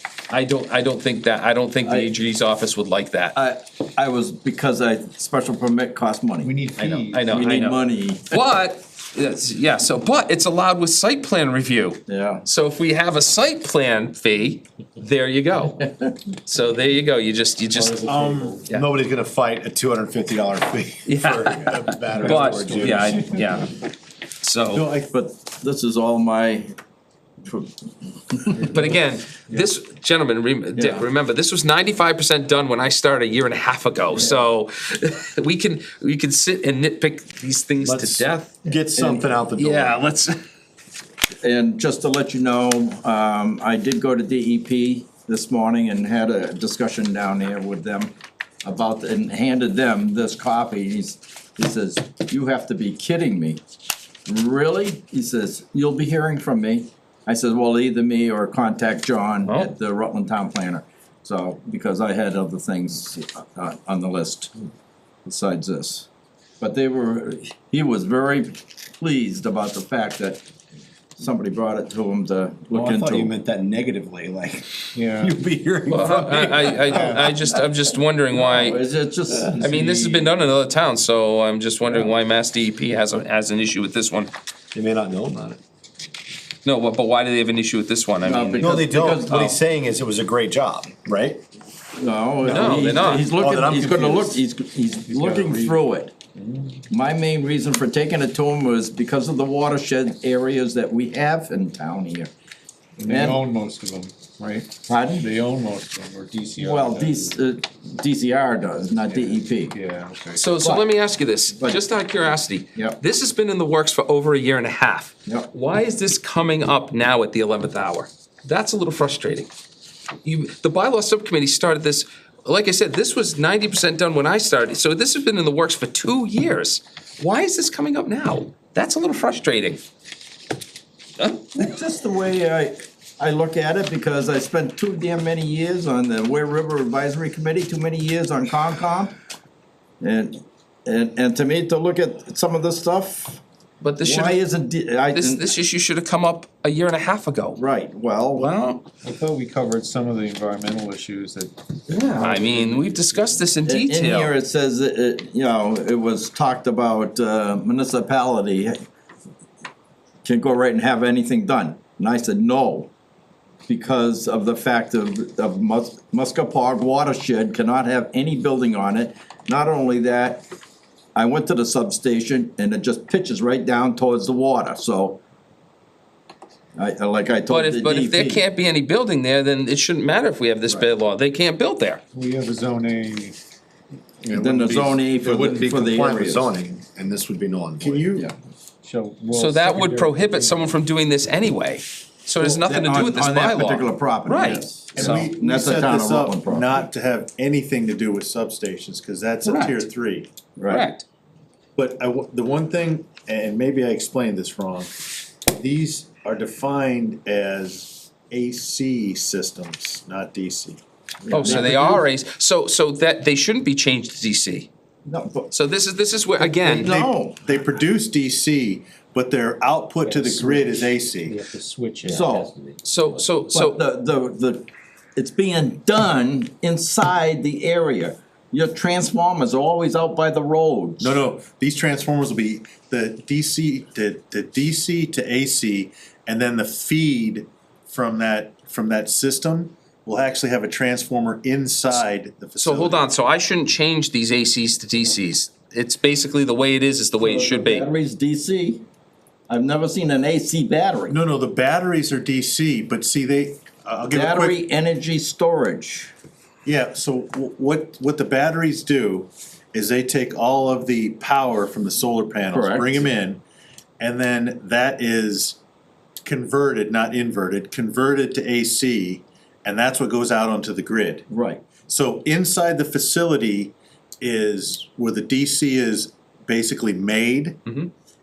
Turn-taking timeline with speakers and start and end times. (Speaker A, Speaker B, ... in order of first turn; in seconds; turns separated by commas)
Speaker A: 0.3-3.4, Speaker B: 1.9-2.1, Speaker B: 3.4-6.6, Speaker C: 6.4-7.2, Speaker A: 6.8-18.1, Speaker B: 7.3-8.3, Speaker B: 12.1-12.4, Speaker D: 18.0-18.6, Speaker C: 18.0-18.7, Speaker E: 18.7-23.4, Speaker A: 21.1-23.8, Speaker C: 22.2-22.5, Speaker D: 22.3-23.1, Speaker A: 24.4-24.9, Speaker D: 24.7-25.1, Speaker B: 25.1-26.8, Speaker B: 27.5-27.7, Speaker B: 28.3-28.7, Speaker A: 28.6-38.6, Speaker B: 30.8-31.1, Speaker E: 37.8-38.3, Speaker B: 38.9-39.4, Speaker D: 39.0-39.5, Speaker E: 39.1-40.0, Speaker A: 39.6-40.4, Speaker B: 41.4-53.6, Speaker B: 54.3-64.6, Speaker B: 65.2-66.1, Speaker B: 66.6-70.4, Speaker B: 71.2-73.3, Speaker E: 72.7-77.6, Speaker C: 74.9-75.4, Speaker A: 75.9-78.8, Speaker B: 78.4-80.3, Speaker A: 79.6-84.3, Speaker E: 84.7-85.6, Speaker A: 86.7-88.7, Speaker B: 88.2-89.6, Speaker E: 88.6-91.4, Speaker B: 92.0-96.1, Speaker A: 92.4-93.3, Speaker E: 92.7-94.4, Speaker C: 95.1-95.8, Speaker C: 96.4-96.8, Speaker B: 96.9-102.3, Speaker C: 103.0-107.4, Speaker B: 103.1-103.4, Speaker B: 104.9-105.3, Speaker B: 106.6-109.7, Speaker C: 109.2-110.4, Speaker A: 110.3-119.5, Speaker B: 111.6-111.8, Speaker A: 120.2-129.8, Speaker A: 131.2-131.5, Speaker B: 131.5-139.2, Speaker B: 140.0-143.4, Speaker A: 143.8-144.4, Speaker B: 144.0-145.5, Speaker A: 145.1-147.6, Speaker B: 147.6-148.5, Speaker A: 148.4-148.8, Speaker C: 149.0-151.5, Speaker A: 151.9-154.3, Speaker B: 152.2-152.4, Speaker C: 152.3-152.8, Speaker B: 153.7-158.8, Speaker B: 160.2-162.9, Speaker B: 163.7-170.5, Speaker B: 171.2-175.2, Speaker B: 176.8-178.4, Speaker A: 177.5-182.0, Speaker C: 182.1-183.4, Speaker E: 184.3-188.1, Speaker B: 184.3-186.5, Speaker D: 187.8-188.3, Speaker C: 188.8-190.8, Speaker A: 189.3-194.7, Speaker B: 192.4-196.8, Speaker D: 194.9-200.3, Speaker A: 199.4-199.9, Speaker B: 200.6-200.9, Speaker A: 200.7-201.1, Speaker D: 201.8-210.8, Speaker B: 211.3-212.1, Speaker A: 211.3-214.7, Speaker B: 215.1-215.5, Speaker A: 215.5-216.9, Speaker B: 216.4-217.4, Speaker D: 216.7-221.4, Speaker C: 220.1-220.7, Speaker C: 221.3-222.4, Speaker E: 221.5-221.8, Speaker B: 222.0-222.5, Speaker A: 222.8-223.8, Speaker B: 223.5-231.1, Speaker D: 231.0-243.1, Speaker A: 242.6-247.9, Speaker B: 247.2-248.8, Speaker B: 249.5-251.2, Speaker D: 251.1-254.6, Speaker B: 254.1-256.1, Speaker D: 256.6-263.4, Speaker B: 262.5-263.1, Speaker D: 264.0-265.6, Speaker D: 266.2-271.3, Speaker B: 271.3-271.6, Speaker D: 271.9-277.6, Speaker A: 277.7-277.9